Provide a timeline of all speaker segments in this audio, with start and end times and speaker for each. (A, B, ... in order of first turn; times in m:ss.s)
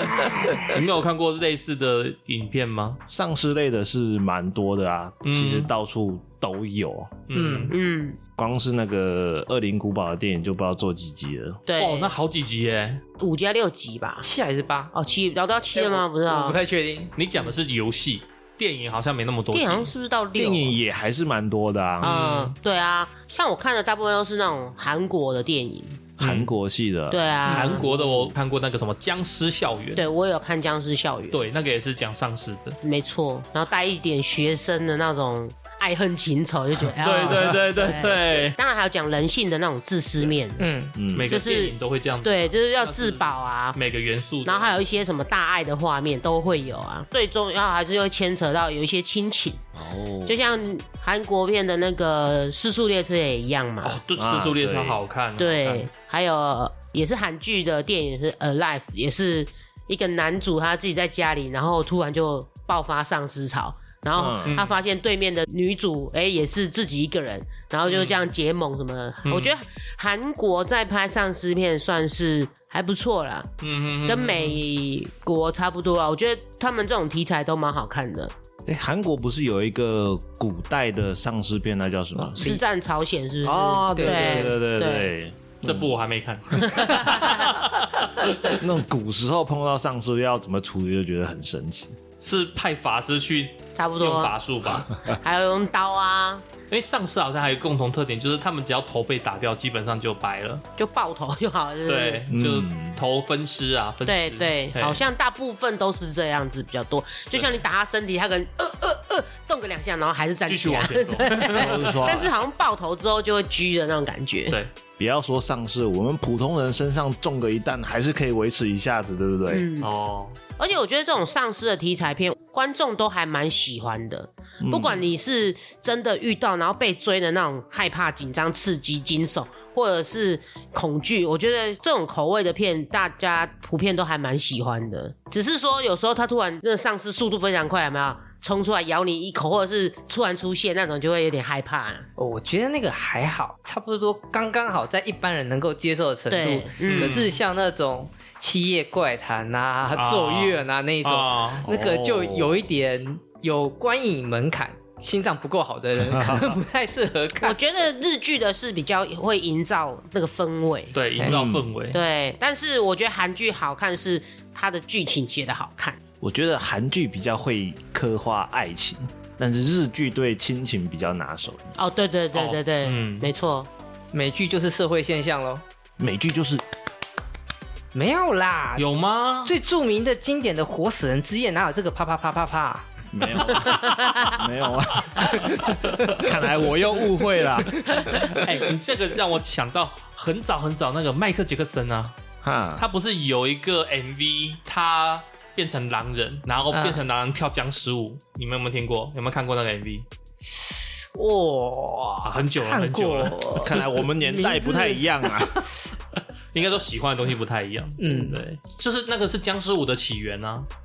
0:00.6-0:03.0 A
0:03.1-0:07.2 B
0:05.2-0:05.7 A
0:07.3-0:07.7 A
0:07.3-0:07.7 C
0:07.7-0:08.2 D
0:08.4-0:11.6 B
0:11.7-0:12.1 D
0:11.8-0:13.0 A
0:13.2-0:14.2 D
0:14.2-0:14.9 C
0:14.9-0:16.6 D
0:15.7-0:17.1 C
0:17.2-0:19.9 A
0:19.5-0:20.7 D
0:20.4-0:22.2 B
0:22.0-0:26.1 D
0:22.0-0:22.5 A
0:26.2-0:26.5 A
0:26.2-0:27.2 B
0:27.1-0:27.8 D
0:27.5-0:28.0 C
0:27.5-0:30.0 A
0:30.0-0:31.4 D
0:31.3-0:32.8 A
0:32.8-0:40.6 D
0:37.0-0:38.6 A
0:40.6-0:40.9 C
0:40.9-0:41.4 B
0:41.1-0:44.9 A
0:41.3-0:43.8 D
0:44.4-0:49.6 D
0:49.8-0:50.4 B
0:50.2-0:54.0 D
0:53.8-0:55.9 A
0:54.2-0:55.0 B
0:55.4-1:13.5 D
1:04.2-1:04.6 B
1:04.4-1:04.8 A
1:07.8-1:08.3 A
1:09.2-1:09.5 A
1:13.6-1:14.6 A
1:14.0-1:18.3 D
1:18.6-1:22.4 B
1:22.1-1:22.6 C
1:22.4-1:25.1 D
1:23.4-1:25.9 B
1:23.9-1:24.5 C
1:25.6-1:28.6 A
1:26.6-1:27.5 D
1:28.6-1:32.0 B
1:32.2-1:35.0 A
1:33.7-1:34.3 D
1:35.1-1:36.4 D
1:36.7-1:40.6 A
1:40.8-1:42.2 D
1:41.9-1:45.0 A
1:42.3-1:43.0 B
1:44.0-1:54.6 D
1:50.5-1:52.3 A
1:51.5-1:52.3 B
1:55.0-1:59.6 B
1:59.5-1:59.9 D
1:59.8-2:00.4 A
2:00.6-2:22.0 D
2:04.6-2:05.0 B
2:22.2-2:37.6 C
2:26.3-2:27.2 D
2:26.8-2:27.3 A
2:29.9-2:31.6 A
2:31.6-2:32.5 B
2:36.0-2:36.5 B
2:37.4-2:40.9 D
2:40.9-2:42.0 A
2:41.2-2:41.7 B
2:41.9-2:46.0 D
2:46.2-2:51.8 B
2:51.8-2:53.7 D
2:52.3-2:53.3 A
2:54.1-2:55.6 C
2:56.0-2:56.6 B
2:57.9-2:58.9 C
2:58.8-2:59.5 A
2:59.4-3:02.9 C
3:03.1-3:08.0 B
3:03.6-3:04.4 D
3:05.2-3:06.3 A
3:08.2-3:12.1 A
3:12.4-3:12.8 B
3:12.8-3:20.0 A
3:16.7-3:17.0 C
3:20.5-3:25.1 C
3:22.2-3:23.6 A
3:23.6-3:25.6 B
3:26.5-3:30.7 A
3:28.0-3:28.4 C